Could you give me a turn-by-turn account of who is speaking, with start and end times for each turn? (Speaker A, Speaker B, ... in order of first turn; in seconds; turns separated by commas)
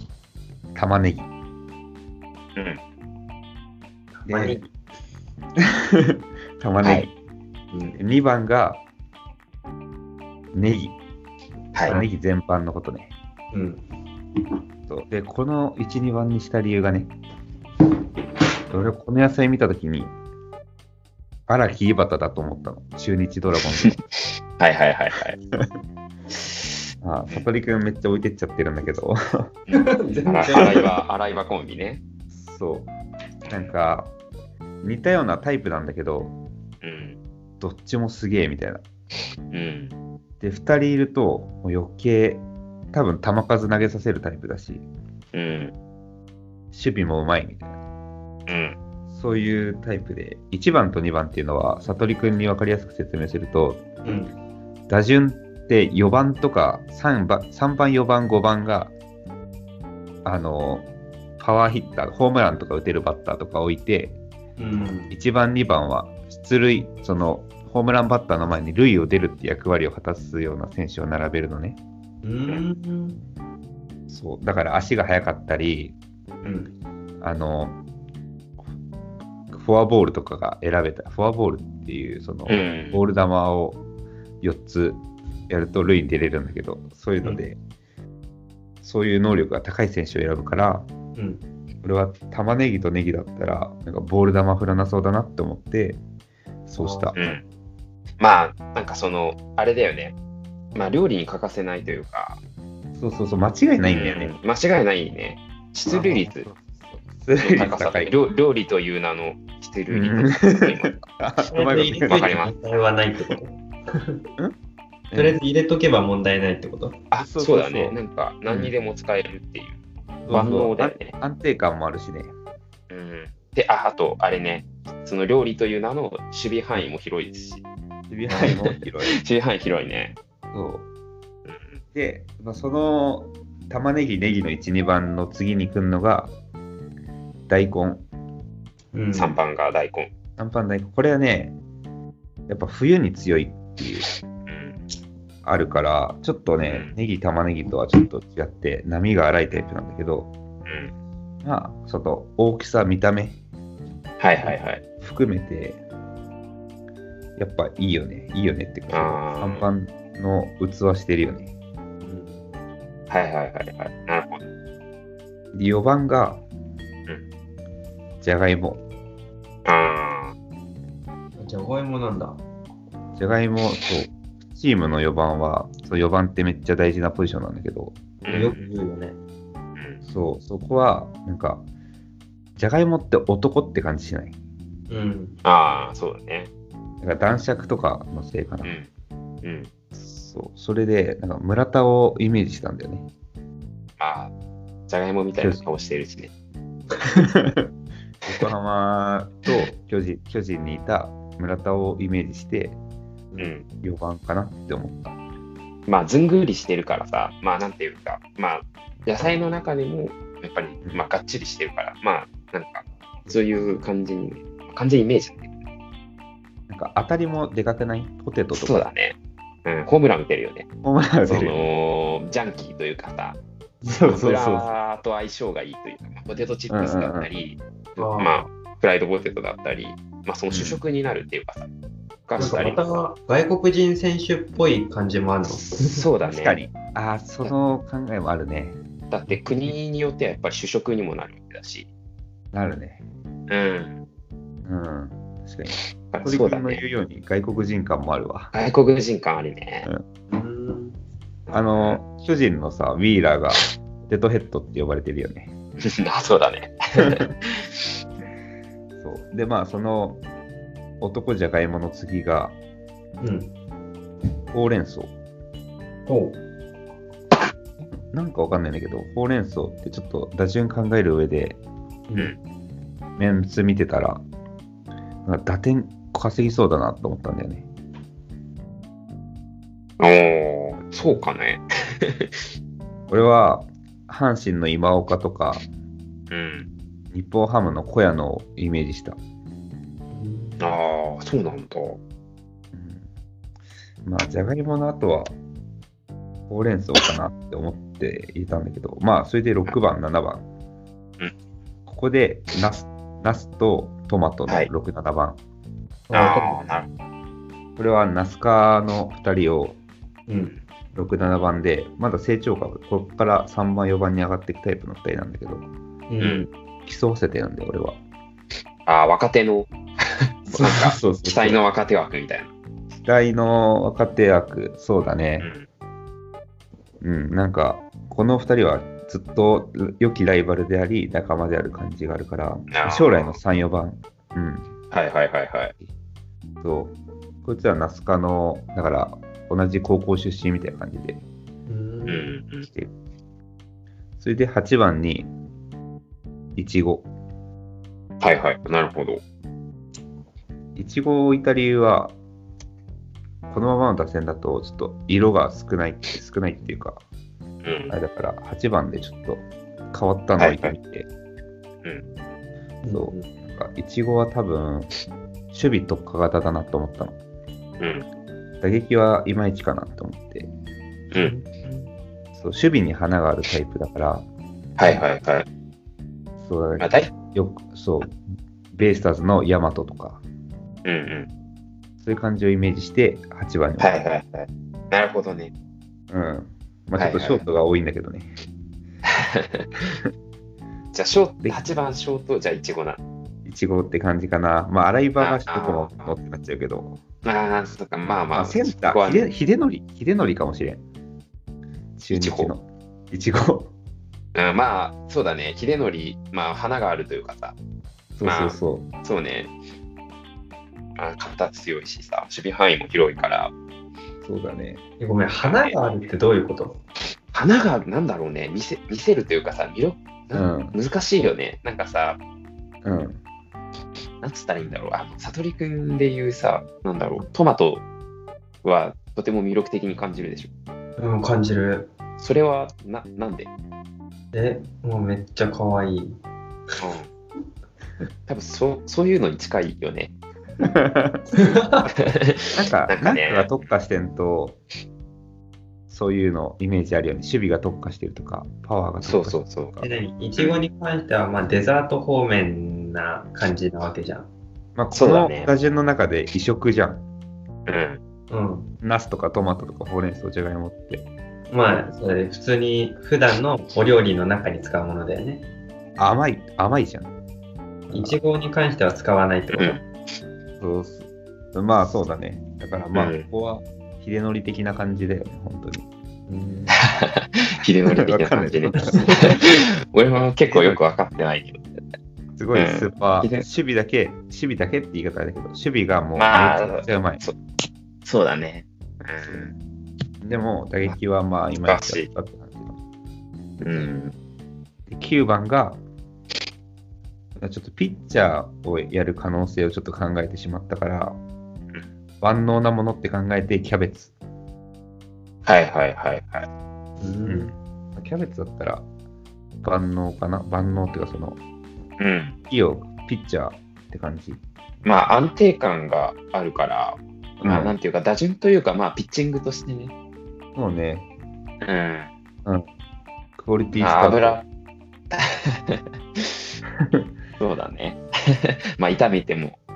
Speaker A: 0.8-1.3, Speaker B: 4.2-4.7, Speaker A: 4.3-4.6, Speaker A: 5.6-7.1, Speaker A: 7.9-8.8, Speaker A: 10.5-11.0, Speaker A: 11.9-13.1, Speaker B: 13.5-13.8, Speaker A: 14.9-17.1, Speaker A: 18.7-20.1, Speaker A: 21.5-24.0, Speaker C: 23.8-25.4, Speaker A: 27.0-29.5, Speaker C: 29.7-32.0, Speaker B: 29.7-30.8, Speaker A: 30.6-30.9, Speaker A: 32.3-32.9, Speaker C: 33.5-33.7, Speaker A: 33.5-34.1, Speaker A: 34.8-36.4, Speaker C: 36.8-37.2, Speaker A: 37.6-38.9, Speaker C: 39.5-39.9, Speaker A: 40.4-44.9, Speaker C: 45.3-45.7, Speaker A: 46.7-47.8, Speaker C: 48.5-48.8, Speaker A: 49.1-53.8, Speaker B: 54.0-54.4, Speaker A: 54.9-58.9, Speaker A: 60.2-60.9, Speaker A: 61.4-64.2, Speaker B: 64.6-65.1, Speaker A: 65.1-71.8, Speaker B: 72.2-73.2, Speaker A: 74.1-76.0, Speaker B: 76.4-76.7, Speaker A: 77.2-77.8, Speaker A: 79.5-83.8, Speaker C: 82.5-83.0, Speaker A: 84.4-87.6, Speaker A: 88.8-90.9, Speaker B: 91.2-91.4, Speaker A: 91.8-96.0, Speaker A: 96.7-97.4, Speaker B: 96.8-97.2, Speaker C: 97.2-97.4, Speaker C: 98.2-100.2, Speaker C: 100.8-102.4, Speaker A: 103.0-104.3, Speaker C: 103.9-106.5, Speaker A: 105.9-108.2, Speaker C: 107.4-111.0, Speaker A: 109.9-112.3, Speaker B: 111.5-114.2, Speaker C: 112.1-112.5, Speaker A: 115.1-115.4, Speaker B: 115.2-117.0, Speaker C: 117.1-119.8, Speaker A: 117.2-118.7, Speaker B: 120.3-120.6, Speaker A: 120.3-122.3, Speaker C: 120.3-121.2, Speaker C: 122.9-127.6, Speaker A: 128.1-129.2, Speaker C: 128.3-130.2, Speaker A: 130.5-130.9, Speaker C: 131.5-131.8, Speaker A: 131.9-136.3, Speaker A: 137.5-138.1, Speaker B: 138.9-139.4, Speaker C: 139.1-140.1, Speaker A: 140.4-141.6, Speaker A: 142.5-144.1, Speaker C: 144.5-144.8, Speaker A: 145.4-150.3, Speaker C: 146.7-146.9, Speaker C: 150.7-150.9, Speaker A: 151.4-153.4, Speaker C: 154.2-154.8, Speaker A: 155.0-155.8, Speaker A: 157.4-161.5, Speaker C: 158.9-159.7, Speaker B: 162.0-162.4, Speaker C: 163.1-164.5, Speaker A: 165.5-166.4, Speaker A: 168.2-168.8, Speaker C: 169.7-170.3, Speaker B: 171.4-172.4, Speaker A: 173.2-178.2, Speaker C: 178.2-178.7, Speaker B: 178.3-179.2, Speaker A: 180.0-181.7, Speaker A: 182.6-184.3, Speaker B: 184.9-185.4, Speaker C: 185.4-186.5, Speaker A: 187.0-188.8, Speaker C: 189.4-189.7, Speaker A: 189.9-193.1, Speaker C: 194.0-194.3, Speaker C: 194.9-196.3, Speaker A: 197.1-197.7, Speaker A: 198.3-202.8, Speaker C: 203.4-203.7, Speaker A: 203.8-205.2, Speaker C: 205.9-215.5, Speaker A: 216.7-218.8, Speaker C: 218.6-220.7, Speaker A: 220.8-221.7, Speaker C: 221.3-223.4, Speaker A: 223.8-224.7, Speaker C: 223.9-231.7, Speaker A: 226.7-227.3, Speaker B: 228.0-228.5, Speaker A: 230.5-230.8, Speaker C: 232.3-232.8, Speaker B: 232.4-236.1, Speaker C: 235.7-236.6, Speaker A: 236.3-239.8, Speaker C: 239.1-241.9, Speaker A: 242.5-243.0, Speaker C: 243.5-244.0, Speaker A: 244.7-248.5, Speaker C: 246.1-246.8, Speaker C: 248.5-249.9, Speaker B: 250.3-251.0, Speaker C: 251.5-252.0, Speaker A: 251.5-255.5, Speaker C: 255.8-257.8, Speaker A: 257.0-257.2, Speaker A: 259.0-260.2, Speaker A: 261.0-262.6, Speaker B: 263.2-263.5, Speaker A: 264.5-265.1, Speaker B: 266.1-266.4, Speaker A: 268.1-271.6, Speaker B: 272.1-272.3, Speaker A: 273.2-274.2, Speaker A: 275.2-277.7, Speaker C: 280.0-282.4, Speaker A: 283.1-285.6, Speaker C: 286.3-286.7, Speaker A: 287.1-289.2, Speaker B: 290.1-290.8, Speaker C: 290.6-292.0, Speaker A: 292.7-293.0, Speaker A: 294.0-295.4, Speaker A: 296.5-300.4, Speaker A: 301.9-305.4, Speaker B: 306.1-306.6, Speaker C: 306.1-306.9, Speaker A: 307.8-309.8, Speaker B: 310.3-310.6, Speaker A: 310.9-315.7, Speaker B: 316.1-316.5, Speaker C: 316.2-316.5, Speaker A: 316.9-318.0, Speaker C: 318.9-322.5, Speaker A: 320.5-321.6, Speaker A: 323.0-325.5, Speaker C: 325.4-325.7, Speaker A: 327.0-334.7, Speaker C: 332.7-333.4, Speaker C: 334.9-335.7, Speaker A: 336.6-341.2, Speaker B: 341.7-342.4, Speaker C: 342.1-342.7, Speaker A: 344.2-345.3, Speaker A: 346.6-347.1, Speaker C: 348.2-349.2, Speaker A: 350.8-352.1, Speaker A: 353.5-357.0, Speaker C: 357.6-357.9, Speaker A: 357.9-361.1, Speaker C: 360.4-360.7, Speaker B: 362.8-363.3, Speaker A: 362.9-364.9, Speaker A: 365.5-367.2, Speaker C: 367.8-368.1, Speaker A: 368.6-370.5, Speaker B: 371.2-371.9, Speaker A: 372.4-374.3, Speaker C: 374.8-375.4, Speaker A: 376.4-378.2, Speaker C: 376.8-377.1, Speaker A: 378.7-380.2, Speaker C: 380.9-381.3, Speaker A: 382.0-383.9, Speaker C: 383.8-385.5, Speaker A: 386.1-388.3, Speaker C: 387.0-387.4, Speaker C: 389.1-389.7, Speaker C: 390.9-393.0, Speaker A: 393.4-397.0, Speaker C: 395.2-396.1, Speaker C: 397.2-399.3, Speaker A: 398.3-400.8, Speaker A: 402.0-403.7, Speaker C: 402.1-402.5, Speaker C: 404.4-407.6, Speaker A: 408.2-408.9, Speaker C: 408.2-409.5, Speaker C: 411.0-413.5, Speaker A: 414.2-414.8, Speaker B: 415.0-416.8, Speaker C: 415.4-415.7, Speaker C: 417.3-422.2, Speaker A: 420.3-420.7, Speaker A: 422.8-423.2, Speaker C: 424.2-427.8, Speaker C: 428.6-430.5, Speaker B: 431.0-431.9, Speaker C: 432.2-433.5, Speaker B: 434.3-436.2, Speaker C: 436.8-437.1, Speaker C: 438.3-440.1, Speaker A: 440.6-441.2, Speaker B: 441.4-441.9, Speaker C: 441.9-443.5, Speaker A: 442.6-444.6, Speaker A: 445.9-449.9, Speaker C: 449.0-449.8, Speaker B: 449.8-454.3, Speaker A: 454.8-457.0, Speaker C: 454.9-455.5, Speaker C: 457.7-458.0, Speaker B: 458.3-458.7, Speaker A: 458.8-461.1, Speaker B: 461.5-465.4, Speaker A: 466.0-467.1, Speaker A: 467.9-468.2, Speaker B: 467.9-469.8, Speaker C: 469.5-469.8, Speaker A: 470.6-475.9, Speaker C: 472.9-473.3, Speaker B: 476.3-476.8, Speaker C: 476.8-481.6, Speaker A: 477.9-479.3, Speaker B: 479.0-479.4, Speaker A: 480.5-480.8, Speaker A: 482.4-487.2, Speaker C: 482.5-483.5, Speaker C: 486.2-487.4, Speaker C: 488.1-489.5, Speaker A: 489.2-489.5, Speaker A: 490.2-492.8, Speaker C: 491.7-492.1, Speaker C: 493.6-494.1, Speaker A: 494.9-495.8, Speaker A: 497.4-501.2, Speaker A: 502.2-504.1, Speaker C: 505.4-506.5, Speaker B: 507.0-507.5, Speaker A: 507.3-508.9, Speaker A: 509.6-511.4, Speaker C: 512.0-512.4, Speaker A: 512.5-514.4, Speaker C: 514.8-519.9, Speaker A: 517.4-517.8, Speaker A: 520.5-521.1, Speaker C: 521.6-522.1, Speaker A: 523.4-524.4, Speaker C: 523.8-524.5, Speaker C: 525.1-526.4, Speaker A: 526.8-527.1, Speaker C: 527.4-529.6